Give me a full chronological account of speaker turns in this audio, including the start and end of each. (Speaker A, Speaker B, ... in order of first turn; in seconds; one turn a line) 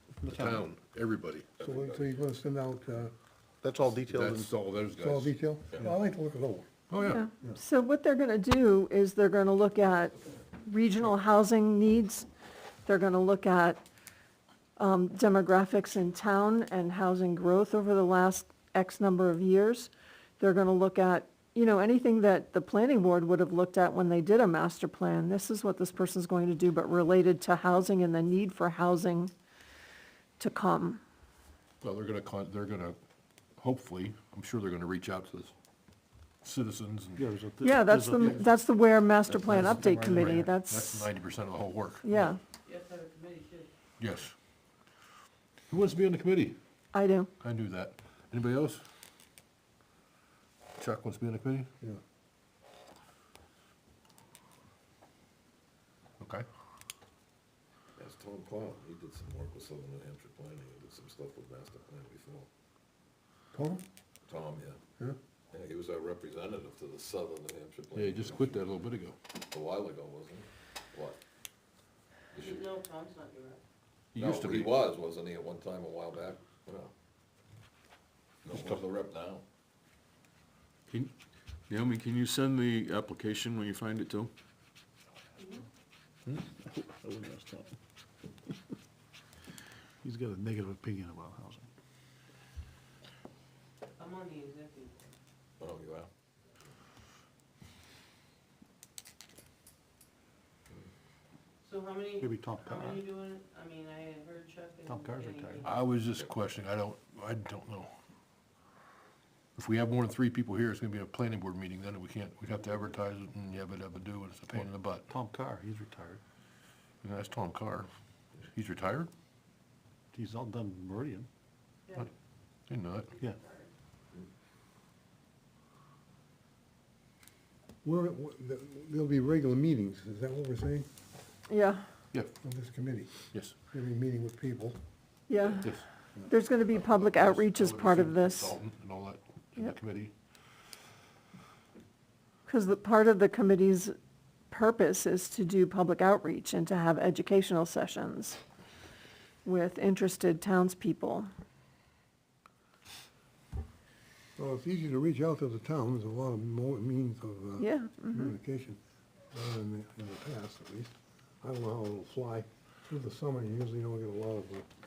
Speaker A: 0.2-0.7
Speaker B: 0.2-1.6
Speaker C: 1.6-2.2
Speaker D: 1.6-3.1
Speaker A: 3.6-4.5
Speaker B: 4.0-5.3
Speaker D: 5.0-6.7
Speaker B: 6.9-7.2
Speaker E: 7.0-12.3
Speaker E: 12.8-13.8
Speaker E: 14.8-29.3
Speaker E: 30.4-31.0
Speaker B: 31.8-33.0
Speaker B: 33.6-35.5
Speaker B: 36.4-37.2
Speaker A: 37.1-38.5
Speaker E: 37.6-41.1
Speaker A: 39.3-40.4
Speaker B: 39.5-42.2
Speaker E: 42.0-42.4
Speaker F: 42.6-43.7
Speaker B: 44.0-44.3
Speaker B: 45.7-46.6
Speaker E: 46.9-47.3
Speaker B: 47.4-48.8
Speaker B: 50.8-51.7
Speaker B: 56.2-56.5
Speaker C: 58.0-62.5
Speaker D: 63.5-63.8
Speaker C: 64.3-64.8
Speaker C: 65.5-68.6
Speaker B: 67.9-69.2
Speaker C: 69.5-71.2
Speaker C: 72.3-72.7
Speaker F: 72.3-73.6
Speaker B: 74.1-74.8
Speaker C: 74.2-76.9
Speaker C: 78.4-79.4
Speaker B: 78.5-78.8
Speaker G: 81.7-84.3
Speaker F: 85.4-85.6
Speaker A: 86.3-87.7
Speaker A: 90.0-91.7
Speaker F: 94.0-95.1
Speaker C: 95.6-96.1
Speaker F: 101.6-105.7
Speaker A: 102.2-103.1
Speaker A: 104.8-105.7
Speaker B: 105.7-107.9
Speaker B: 109.5-115.1
Speaker A: 114.5-116.2
Speaker B: 117.0-117.9
Speaker B: 118.5-119.1
Speaker A: 120.1-121.3
Speaker B: 122.7-123.2
Speaker F: 123.2-123.7
Speaker D: 127.8-130.9
Speaker E: 131.5-131.9
Speaker D: 132.4-133.1
Speaker D: 133.7-134.8
Speaker E: 135.3-135.7
Speaker B: 135.6-135.8
Speaker E: 136.2-138.6
Speaker B: 136.7-140.1
Speaker E: 142.4-143.9
Speaker E: 144.5-148.4
Speaker E: 149.4-151.3
Speaker D: 154.4-158.8
Speaker E: 157.6-158.3
Speaker D: 159.3-164.7